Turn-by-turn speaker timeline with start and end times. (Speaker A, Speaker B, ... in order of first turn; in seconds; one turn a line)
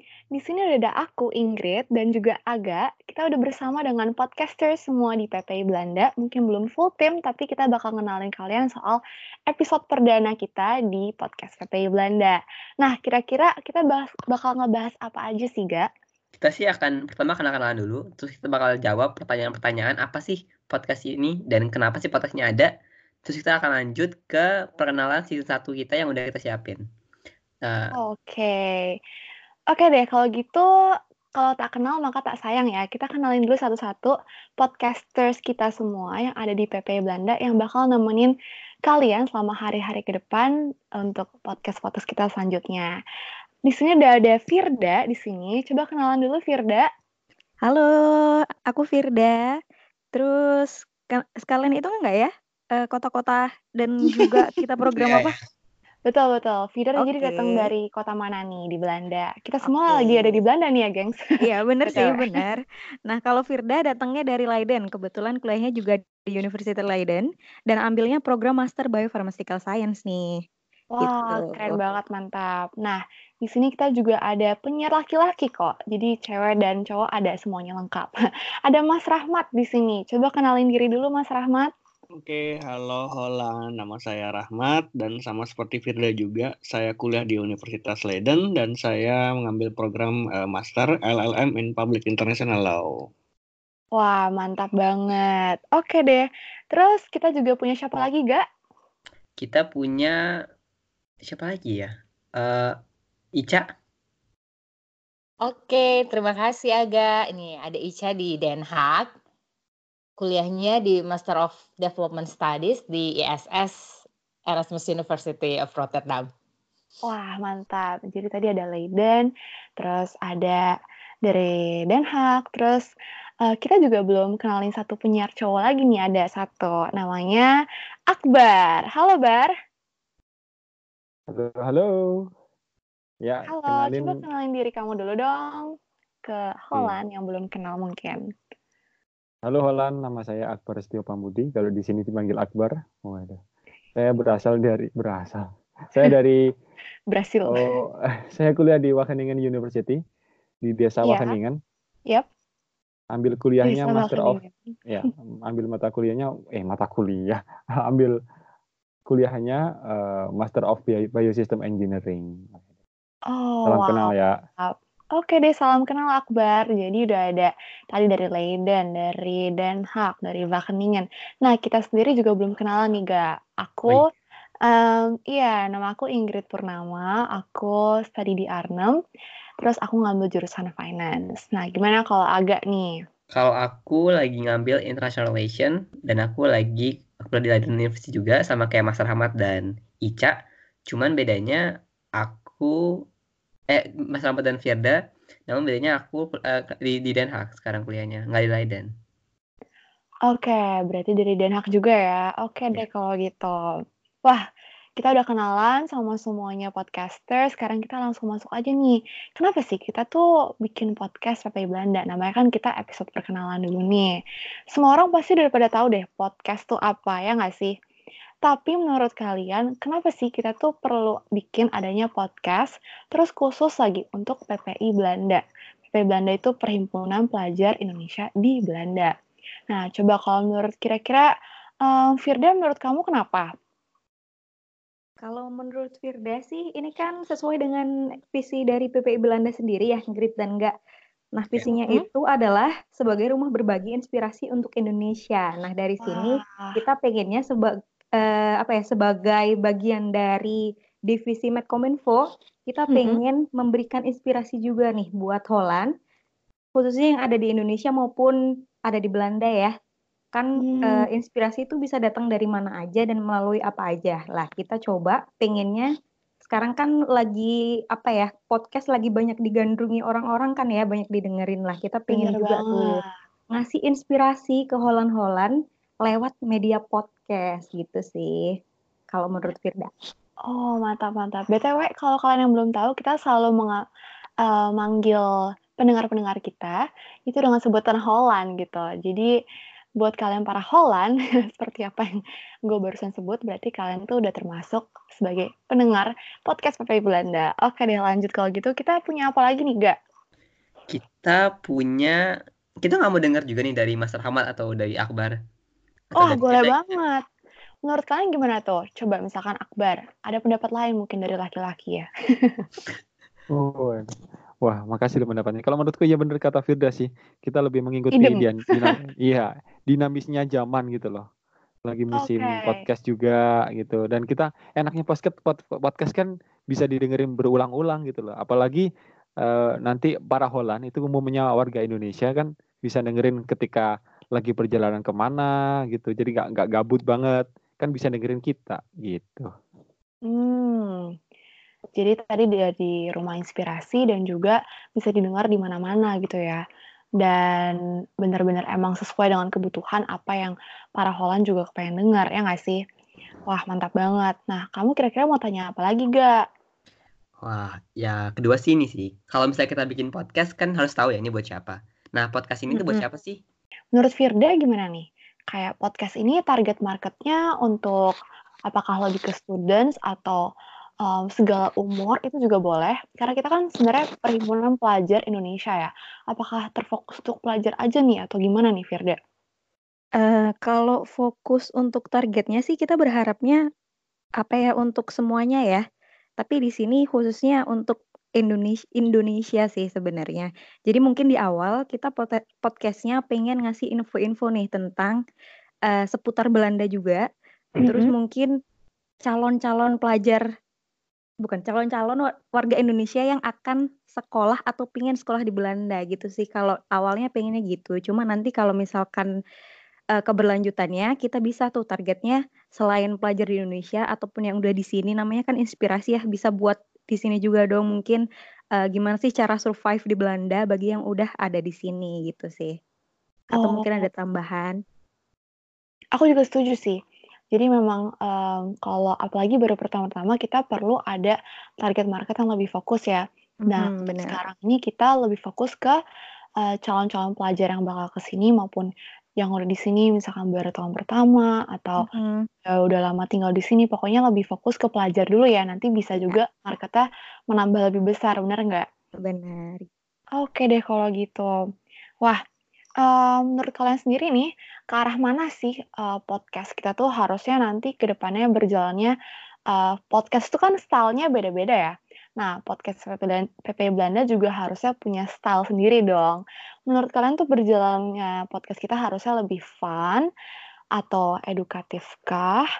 Speaker A: 0.3-15.9
Speaker B: 16.4-22.7
Speaker B: 23.2-26.8
Speaker B: 27.6-27.9
Speaker A: 27.9-29.0
Speaker A: 29.7-30.7
Speaker A: 31.3-43.0
Speaker A: 43.6-46.9
Speaker C: 47.6-49.5
Speaker C: 50.1-55.3
Speaker A: 56.0-61.3
Speaker C: 57.0-57.6
Speaker C: 59.9-60.4
Speaker C: 61.4-70.4
Speaker A: 61.8-62.4
Speaker A: 70.9-78.1
Speaker C: 71.0-71.8
Speaker A: 78.7-81.7
Speaker D: 82.2-93.1
Speaker A: 93.9-98.4
Speaker B: 99.4-100.2
Speaker B: 101.3-102.8
Speaker B: 103.4-103.6
Speaker E: 105.4-109.1
Speaker E: 110.2-116.3
Speaker A: 117.0-122.9
Speaker A: 123.4-127.5
Speaker A: 128.1-129.5
Speaker F: 131.3-132.3
Speaker F: 133.2-134.2
Speaker A: 133.5-135.7
Speaker A: 136.2-138.2
Speaker F: 139.4-143.4
Speaker F: 143.9-146.4
Speaker A: 147.1-147.8
Speaker F: 147.4-150.0
Speaker F: 150.6-151.6
Speaker A: 151.0-151.3
Speaker F: 153.1-158.2
Speaker A: 153.6-154.8
Speaker F: 159.1-162.6
Speaker A: 163.3-174.0
Speaker F: 163.7-164.4
Speaker A: 174.6-178.9
Speaker A: 179.6-183.0
Speaker B: 183.3-190.3
Speaker B: 190.9-191.6
Speaker B: 192.2-192.8
Speaker B: 193.7-198.9
Speaker A: 200.3-204.4
Speaker A: 205.0-214.2
Speaker A: 214.7-217.7
Speaker A: 218.4-229.1
Speaker A: 229.7-231.3
Speaker A: 231.8-233.5
Speaker C: 235.2-240.7
Speaker C: 241.3-255.9
Speaker A: 246.0-246.8
Speaker A: 252.9-253.2
Speaker C: 256.8-259.7
Speaker C: 260.3-265.9
Speaker A: 260.6-261.1
Speaker C: 266.5-273.0
Speaker A: 272.1-273.1
Speaker C: 273.5-278.4
Speaker C: 279.1-279.9
Speaker A: 280.4-283.8
Speaker A: 284.4-289.3
Speaker A: 290.0-300.0
Speaker B: 300.9-302.2
Speaker B: 302.8-305.4
Speaker B: 306.1-306.7
Speaker A: 306.2-307.2
Speaker A: 307.9-312.7
Speaker F: 313.5-314.1
Speaker F: 314.6-321.2
Speaker A: 318.1-318.9
Speaker F: 321.9-328.9
Speaker A: 322.2-322.8
Speaker F: 329.4-339.5
Speaker A: 340.2-341.1
Speaker A: 341.9-346.6
Speaker A: 347.2-352.8
Speaker A: 353.5-356.4
Speaker B: 357.4-363.4
Speaker A: 363.9-368.1
Speaker A: 368.7-370.5
Speaker A: 371.0-379.2
Speaker C: 380.2-383.6
Speaker C: 384.4-385.8
Speaker C: 386.4-395.2
Speaker C: 395.9-397.3
Speaker A: 397.8-398.1
Speaker C: 397.8-398.5
Speaker C: 399.2-400.4
Speaker C: 401.4-409.3
Speaker C: 410.1-418.2
Speaker C: 418.8-422.7
Speaker C: 423.5-424.8
Speaker A: 423.6-424.1
Speaker A: 426.1-427.0
Speaker A: 427.5-436.0
Speaker C: 433.7-434.4
Speaker A: 436.6-442.1
Speaker C: 442.0-442.5
Speaker A: 442.6-448.9
Speaker C: 449.2-449.9
Speaker A: 450.4-451.6
Speaker A: 453.0-459.1
Speaker A: 459.7-470.3
Speaker A: 470.9-472.7